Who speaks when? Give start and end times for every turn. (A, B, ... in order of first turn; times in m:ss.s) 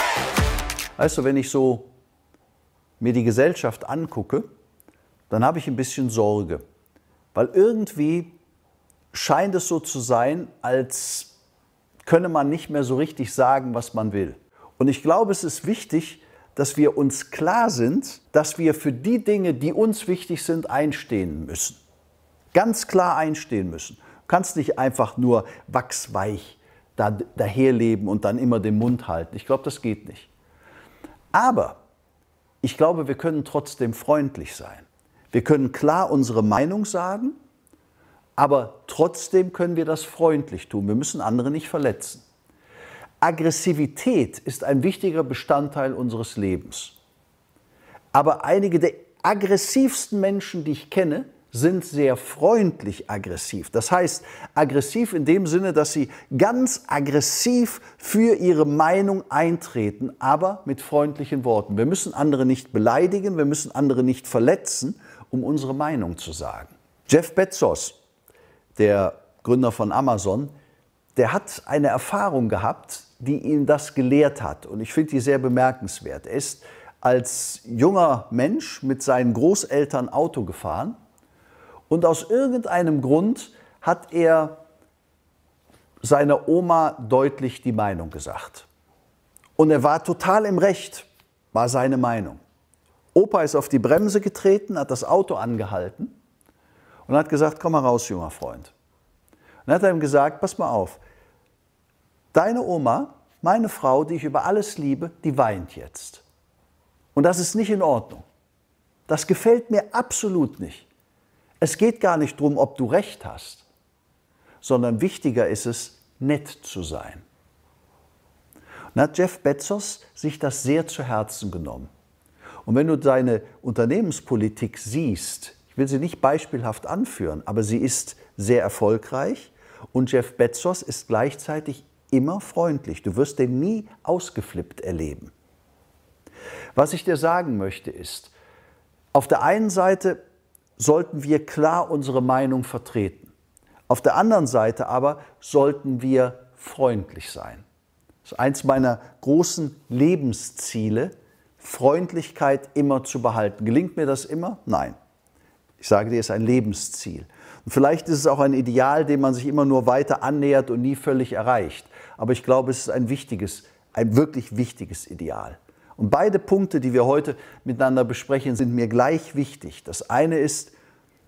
0:01.0-0:01.9 A
0:03.0-0:04.5 A
0:05.3-0:06.6 A
0:07.3-0:08.4 A
0:09.1-0:11.3 A
0:12.0-0:21.8 A
0:22.5-0:30.3 A
0:31.3-0:31.8 A
0:32.6-0:37.4 A
0:38.4-0:42.3 A
0:43.2-0:47.0 A
0:48.1-1:08.0 A
1:08.8-1:10.5 A
1:11.2-1:21.0 A
1:21.9-1:24.6 A
1:26.0-1:28.7 A
1:29.6-1:32.4 A
1:33.1-1:36.1 A
1:37.1-1:38.7 A
1:39.7-1:41.0 A
1:42.3-1:46.2 A
1:47.1-1:48.2 A
1:49.1-1:50.9 A
1:51.6-1:53.7 A
1:54.6-1:57.2 A
1:58.9-2:01.9 A
2:02.6-2:15.3 A
2:16.7-2:18.3 A
2:19.1-2:20.2 A
2:20.8-2:23.3 A
2:23.9-2:27.6 A
2:28.2-2:35.0 A
2:35.8-2:50.8 A